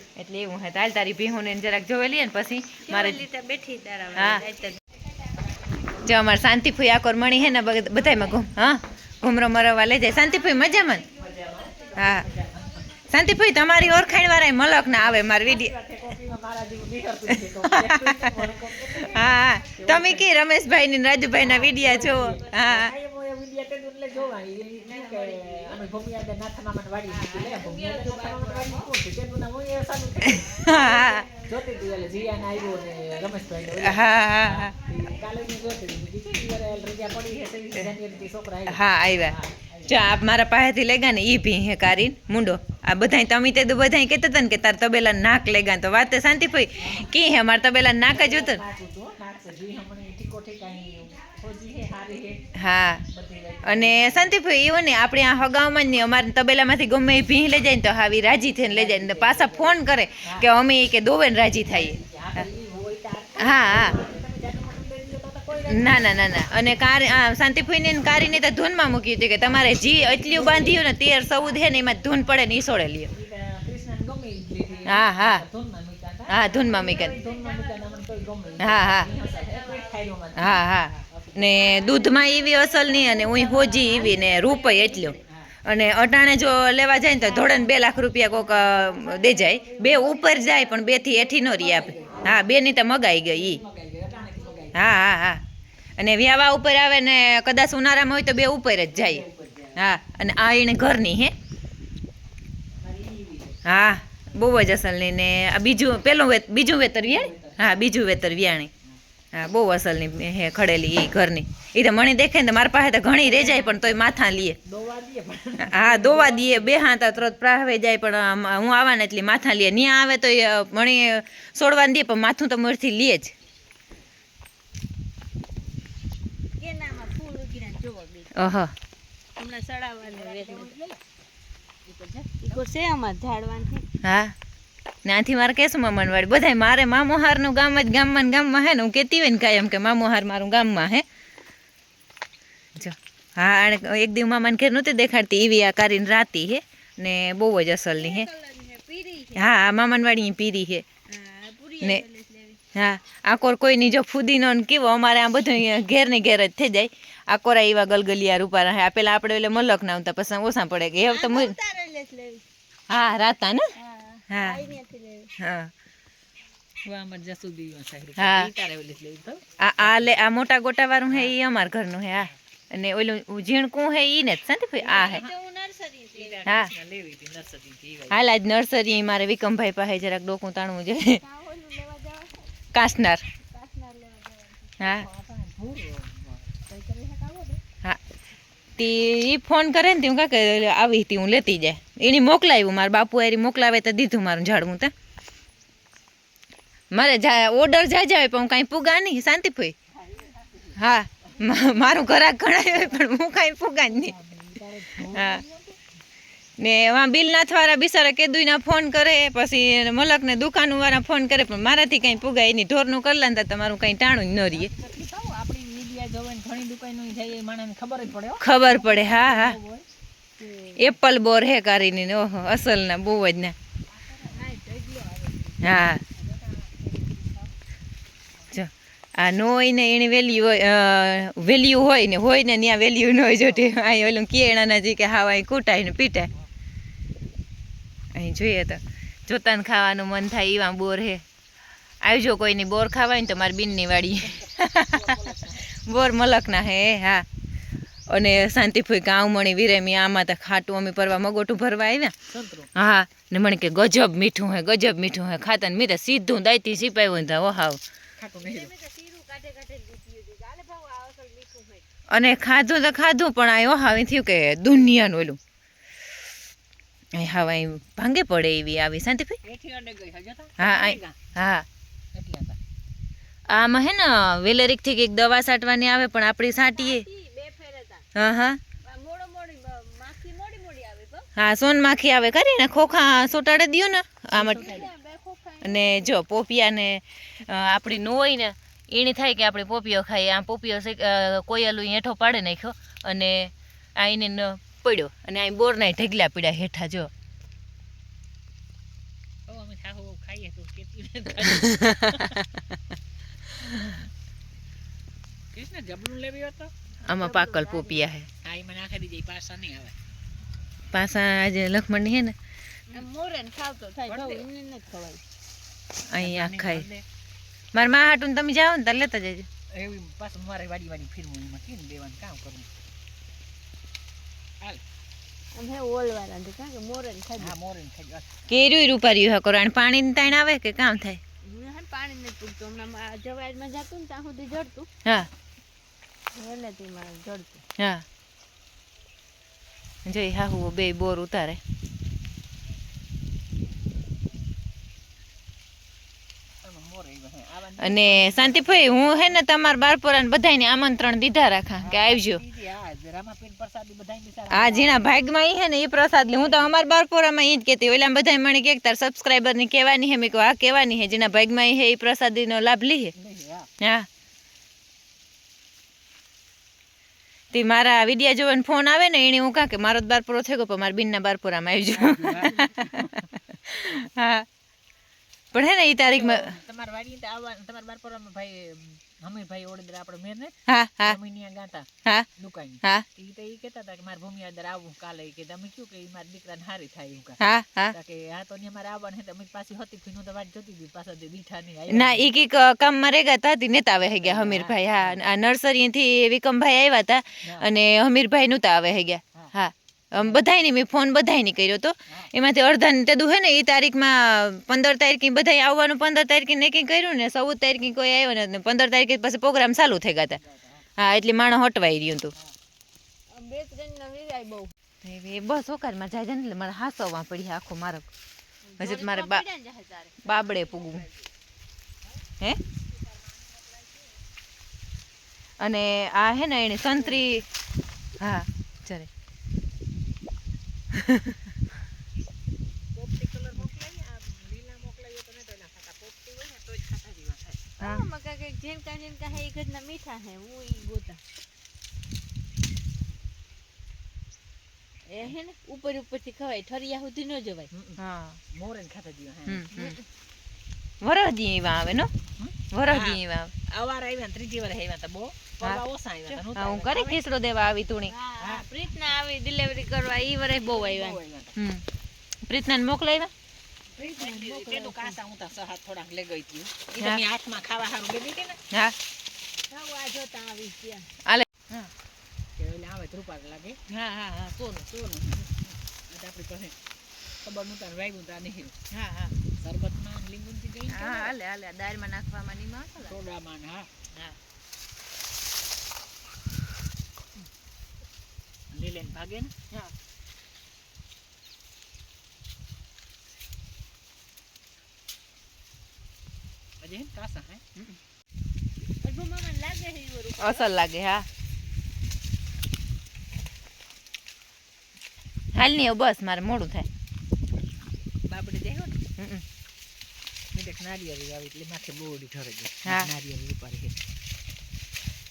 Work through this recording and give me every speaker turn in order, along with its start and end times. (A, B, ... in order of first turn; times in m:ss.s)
0:00.2-0:03.2 A
0:02.8-0:04.8 B
0:04.1-0:04.4 A
0:06.0-0:11.0 A
0:10.1-0:12.8 B
0:11.1-0:12.7 C
0:12.0-0:12.3 A
0:13.1-0:15.7 A
0:13.9-0:14.3 B
0:14.7-0:20.3 C
0:17.3-0:22.9 A
0:19.6-0:20.3 B
0:21.3-0:40.2 C
0:21.8-0:22.6 B
0:24.2-0:25.8 B
0:27.1-0:28.9 B
0:30.3-0:31.2 A
0:30.6-0:33.7 B
0:33.8-0:34.7 A
0:35.0-0:35.3 B
0:38.7-0:48.6 A
0:46.8-0:47.1 C
0:48.1-0:52.5 C
0:52.5-0:53.0 A
0:53.1-0:54.4 C
0:53.6-1:02.0 A
0:58.6-1:00.5 C
1:01.7-1:06.9 C
1:03.4-1:04.0 A
1:05.7-1:13.1 A
1:09.7-1:12.3 C
1:13.1-1:21.7 C
1:14.8-1:15.4 A
1:16.3-1:17.1 A
1:16.4-1:20.1 B
1:18.6-1:19.1 A
1:20.4-1:33.6 A
1:21.6-1:25.2 B
1:22.8-1:23.3 C
1:25.2-1:25.5 C
1:27.2-1:32.3 B
1:31.4-1:32.5 C
1:33.2-1:34.8 C
1:34.1-1:34.7 B
1:34.7-1:35.4 A
1:36.0-1:39.2 A
1:38.9-1:39.9 C
1:39.8-1:41.3 A
1:42.8-1:43.6 C
1:43.6-1:48.7 A
1:47.0-1:47.9 C
1:49.3-1:54.6 A
1:53.2-1:54.0 C
1:54.6-1:56.8 C
1:55.6-2:03.3 A
2:06.6-2:08.3 B
2:08.3-2:08.7 A
2:09.4-2:10.8 B
2:10.0-2:11.0 C
2:11.8-2:12.6 C
2:12.4-2:13.8 B
2:14.0-2:14.3 A
2:15.0-2:21.0 A
2:22.8-2:28.3 A
2:27.9-2:29.5 B
2:29.3-2:30.8 A
2:31.1-2:32.6 B
2:32.7-2:41.5 A
2:41.1-2:42.4 B
2:42.9-2:43.7 A
2:43.7-2:45.3 B
2:44.3-2:44.6 A
2:45.4-2:45.7 A
2:46.8-2:50.1 C
2:48.2-2:48.5 A
2:49.6-2:55.2 A
2:51.1-2:51.4 C
2:54.8-2:56.4 B
2:54.8-2:55.3 C
2:56.1-2:58.2 C
2:58.1-3:01.2 A
3:01.1-3:02.5 B
3:02.7-3:03.2 A
3:03.5-3:04.8 B
3:04.8-3:05.1 A
3:04.8-3:07.6 C
3:08.8-3:14.9 A
3:16.9-3:19.7 A
3:20.0-3:20.7 C
3:20.7-3:24.1 A
3:23.8-3:25.8 C
3:25.0-3:25.4 A
3:26.6-3:34.7 A
3:34.5-3:39.8 C
3:38.4-3:39.6 A
3:40.4-3:40.9 B
3:40.8-3:43.5 A
3:43.9-3:44.6 C
3:44.3-3:45.6 B
3:45.6-3:46.0 A
3:45.8-3:47.5 C
3:48.5-3:56.3 A
3:53.4-3:53.7 C
3:58.1-4:01.2 A
4:02.0-4:05.1 A
4:04.3-4:05.7 C
4:05.8-4:07.2 A
4:08.1-4:12.1 A
4:12.3-4:12.7 C
4:12.8-4:17.8 A
4:18.2-4:18.7 C
4:18.4-4:21.8 B
4:22.1-4:25.4 A
4:27.2-4:29.4 A
4:29.4-4:31.2 C
4:30.6-4:31.6 A
4:32.1-4:32.6 C
4:33.5-4:37.0 A
4:36.7-4:38.0 B
4:38.1-4:38.6 A
4:38.8-4:41.3 B
4:41.3-4:44.9 A
4:44.3-4:44.9 C
4:44.5-4:46.2 B
4:45.6-4:57.1 A
4:59.5-5:02.4 C
5:01.5-5:02.6 A
5:05.5-5:06.7 C
5:07.0-5:08.3 A
5:07.1-5:08.0 B
5:08.4-5:10.0 C
5:10.9-5:12.3 A
5:12.9-5:15.2 B
5:14.1-5:14.4 C
5:16.1-5:16.9 A
5:16.2-5:17.0 C
5:17.7-5:19.5 A
5:19.7-5:22.7 C
5:25.5-5:27.5 B
5:27.4-5:28.3 C
5:28.5-5:31.2 A
5:31.4-5:34.9 B
5:36.3-5:37.6 B
5:37.8-5:38.0 A
5:40.0-5:41.6 A
5:46.6-5:49.4 C
5:47.8-5:52.4 A
5:51.8-5:55.0 C
5:54.5-6:03.1 A
6:03.1-6:03.7 C
6:03.8-6:04.1 A
6:07.5-6:14.4 A
6:11.9-6:13.3 C
6:15.5-6:16.5 A
6:16.0-6:32.2 C
6:20.7-6:21.2 A
6:27.4-6:28.0 A
6:31.9-6:50.4 A
6:34.0-6:35.2 C
6:37.4-6:37.7 C
6:40.2-6:40.4 C
6:50.3-6:50.8 C
6:51.0-6:52.3 A
6:53.3-6:54.7 B
6:55.0-6:58.1 A
6:58.6-7:01.3 B
6:58.8-6:59.4 A
7:00.2-7:01.0 A
7:03.2-7:04.1 C
7:05.6-7:07.5 A
7:08.2-7:09.1 A
7:10.9-7:11.4 A
7:12.9-7:17.6 C
7:17.8-7:21.2 B
7:25.1-7:27.7 B
7:27.7-7:28.0 C
7:28.0-7:28.4 A
7:28.5-7:29.7 C
7:29.5-7:30.0 A
7:29.7-7:30.0 B
7:31.0-7:32.1 A
7:32.4-7:37.2 C
7:32.7-7:33.5 A
7:36.5-7:38.1 A
7:38.0-7:41.2 B
7:38.4-7:38.6 C
7:40.6-7:41.6 C
7:41.6-7:41.8 A
7:42.4-7:43.3 A
7:44.0-7:45.2 B
7:44.0-7:48.6 C
7:49.7-7:51.1 B
7:51.2-7:51.9 A
7:52.6-7:53.8 C
7:53.9-7:54.8 A
7:54.9-7:56.8 C
7:57.4-7:58.7 C
7:58.9-7:59.3 A
7:59.6-8:01.3 C
8:00.9-8:03.3 A
8:03.0-8:04.0 C
8:08.7-8:09.5 C
8:16.8-8:18.0 C
8:19.0-8:20.7 B
8:20.4-8:21.2 A
8:25.5-8:26.9 A
8:28.2-8:29.0 C
8:29.2-8:29.4 A
8:30.5-8:33.9 C